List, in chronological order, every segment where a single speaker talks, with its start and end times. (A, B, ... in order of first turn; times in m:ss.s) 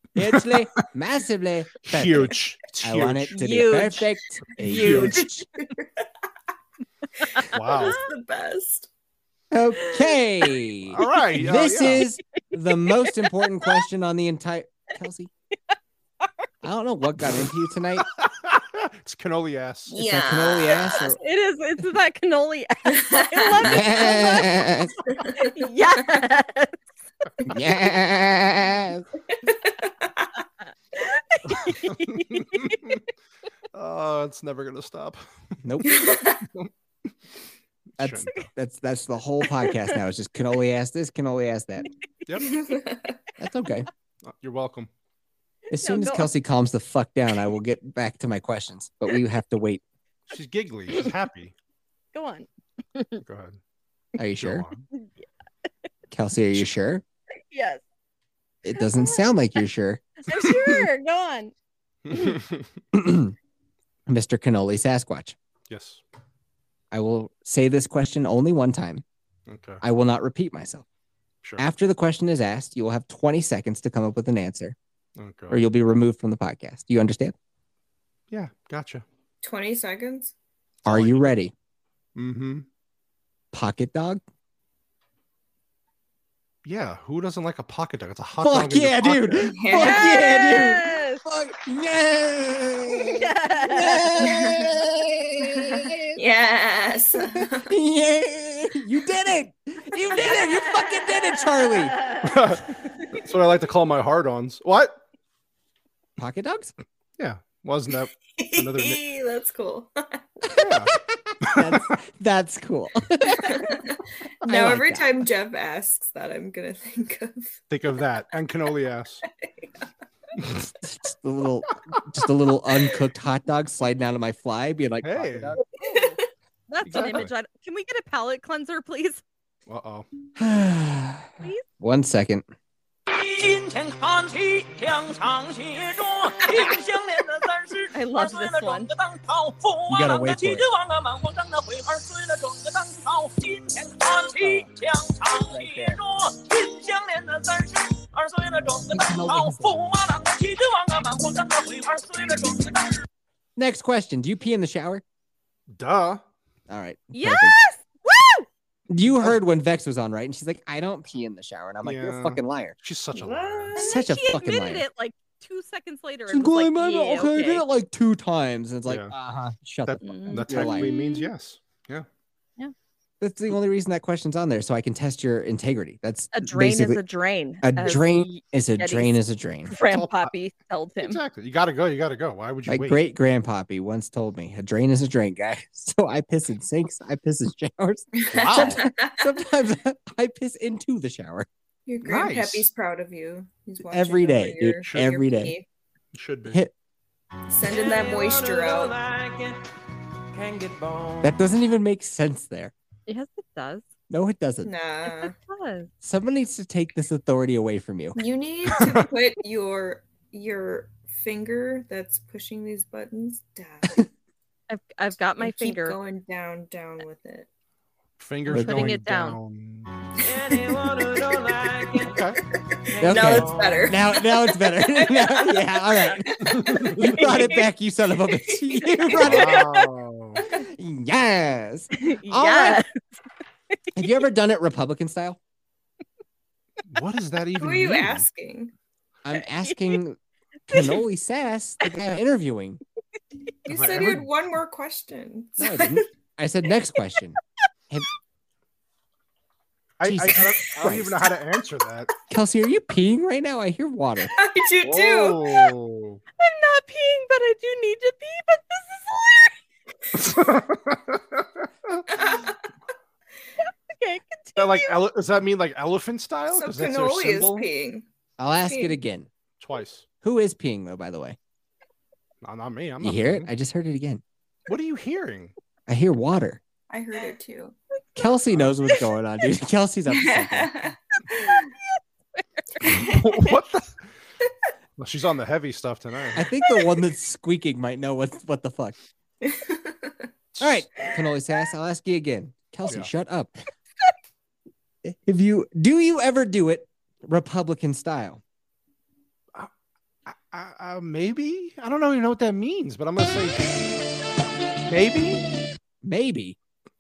0:00.2-0:00.6 A
0:00.2-0:05.5 B
0:01.8-0:03.3 A
0:03.3-0:04.1 C
0:04.6-0:05.3 C
0:04.7-0:05.2 A
0:04.8-0:06.0 D
0:07.2-0:08.9 D
0:07.5-0:08.0 A
0:09.5-0:15.3 B
0:10.9-0:12.0 A
0:16.6-0:18.0 B
0:18.2-0:20.0 A
0:19.9-0:21.0 D
0:20.0-0:21.2 B
0:20.9-0:24.6 C
0:22.9-0:24.2 D
0:23.6-0:24.9 B
0:25.1-0:25.6 D
0:25.3-0:26.8 C
0:27.4-0:29.0 B
0:29.3-0:30.3 D
0:30.7-0:32.9 C
0:31.4-0:33.0 A
0:33.7-0:35.2 A
0:35.6-0:36.0 B
0:35.8-0:36.4 D
0:38.0-0:38.3 A
0:38.0-0:41.8 B
0:39.4-0:39.9 C
0:42.3-0:42.6 A
0:42.4-0:43.2 D
0:43.4-0:43.9 B
0:44.2-0:44.9 A
0:45.7-0:49.8 B
0:45.8-0:46.3 C
0:50.3-0:51.5 A
0:52.1-0:53.2 C
0:53.2-0:53.6 A
0:54.2-0:54.6 B
0:54.4-0:54.9 A
0:54.9-0:55.2 C
0:56.1-0:57.0 B
0:57.5-0:57.8 C
0:58.6-1:00.1 B
0:58.7-0:59.2 C
1:00.2-1:01.5 C
1:02.0-1:02.7 A
1:02.1-1:02.4 C
1:02.9-1:03.3 B
1:04.1-1:05.3 B
1:05.7-1:06.0 A
1:06.9-1:09.0 B
1:09.5-1:09.8 A
1:09.8-1:10.8 B
1:11.6-1:14.8 B
1:15.2-1:15.7 A
1:15.5-1:17.3 B
1:18.3-1:19.0 A
1:19.4-1:20.3 D
1:20.8-1:21.3 A
1:20.8-1:21.5 B
1:22.2-1:22.7 A
1:23.5-1:24.2 B
1:26.6-1:29.5 A
1:28.4-1:36.2 B
1:29.4-1:30.5 D
1:29.7-1:31.2 C
1:33.0-1:34.2 C
1:34.2-1:34.7 D
1:36.1-1:37.7 D
1:37.2-1:42.0 B
1:40.1-1:42.5 C
1:42.2-1:45.0 A
1:46.2-1:46.7 B
1:47.2-1:49.0 A
1:48.3-1:50.3 D
1:50.5-1:53.7 B
1:50.6-1:51.7 A
1:53.4-1:57.6 D
1:54.4-1:55.1 B
1:57.7-1:59.2 A
1:59.3-1:59.9 D
2:00.4-2:00.7 A
2:00.8-2:05.6 B
2:05.0-2:05.6 A
2:05.8-2:06.2 D
2:05.8-2:09.2 C
2:06.8-2:07.3 A
2:09.7-2:10.1 A
2:10.4-2:12.4 B
2:13.1-2:33.0 E
2:17.9-2:18.9 C
2:19.9-2:20.6 B
2:25.5-2:26.0 B
2:28.9-2:29.8 B
2:33.6-2:35.0 B
2:35.7-2:36.2 A
2:36.7-2:37.6 B
2:37.1-2:38.5 C
2:38.9-2:42.8 B
2:39.1-2:39.4 A
2:41.8-2:43.8 A
2:43.1-2:44.0 D
2:43.8-2:44.8 B
2:43.8-2:47.6 C
2:46.3-2:50.9 B
2:48.8-2:49.1 A
2:49.8-2:52.1 A
2:50.0-2:51.3 C
2:53.2-2:57.0 B
2:56.3-2:59.1 C
2:57.6-2:59.7 B
2:59.7-3:01.2 C
2:59.8-3:00.3 A
3:01.0-3:03.0 A
3:02.7-3:11.5 B
3:08.2-3:09.2 D
3:08.3-3:08.8 A
3:11.8-3:15.6 D
3:12.0-3:12.6 A
3:13.9-3:15.6 B
3:14.8-3:15.1 A
3:16.1-3:16.6 A
3:16.5-3:16.7 B
3:17.5-3:18.9 D
3:17.6-3:19.6 E
3:20.3-3:21.4 E
3:21.2-3:22.7 B
3:23.1-3:23.8 C
3:24.1-3:24.7 B
3:24.6-3:25.3 D
3:25.0-3:25.9 C
3:26.0-3:28.2 B
3:28.2-3:34.0 D
3:28.7-3:29.1 A
3:34.7-3:36.0 C
3:35.4-3:37.5 D
3:38.2-3:39.9 A
3:38.5-3:38.9 B
3:38.6-3:39.4 C
3:40.2-3:42.3 E
3:40.5-3:41.4 D
3:42.0-3:42.4 A
3:42.9-3:44.0 E
3:43.0-3:47.7 D
3:43.0-3:49.7 B
3:46.4-3:47.0 A
3:48.3-3:49.8 D
3:49.1-3:50.4 A
3:50.7-3:52.8 B
3:52.0-3:52.9 C
3:54.0-3:55.4 B
3:56.9-3:58.3 A
3:57.6-3:58.7 D
3:59.2-4:00.2 B
3:59.3-4:00.0 C
4:00.7-4:02.8 B
4:00.7-4:01.0 C
4:03.6-4:06.0 D
4:03.7-4:04.3 A
4:05.6-4:07.4 B
4:10.0-4:12.1 A
4:10.0-4:11.2 B
4:12.3-4:14.3 B
4:14.3-4:15.6 D
4:14.8-4:16.2 A
4:16.4-4:19.5 C
4:20.1-4:22.1 A
4:22.1-4:22.6 D
4:23.6-4:25.0 C
4:24.6-4:27.7 A
4:26.5-4:28.0 D
4:28.4-4:29.3 B
4:28.6-4:29.0 D
4:29.6-4:30.0 A
4:30.2-4:31.4 B
4:32.4-4:33.5 A
4:33.0-4:34.2 B
4:34.7-4:35.5 A
4:35.9-4:36.6 B
4:36.9-4:37.8 D
4:38.2-4:40.9 B
4:40.1-4:41.6 D
4:41.3-4:41.7 C
4:42.8-4:44.1 A
4:45.0-4:46.4 A
4:46.4-4:49.0 B
4:49.4-4:50.3 D
4:50.5-4:50.8 A
4:50.6-4:53.5 B
4:55.0-4:58.4 B
5:00.2-5:04.0 A
5:04.8-5:05.4 A
5:06.0-5:06.6 B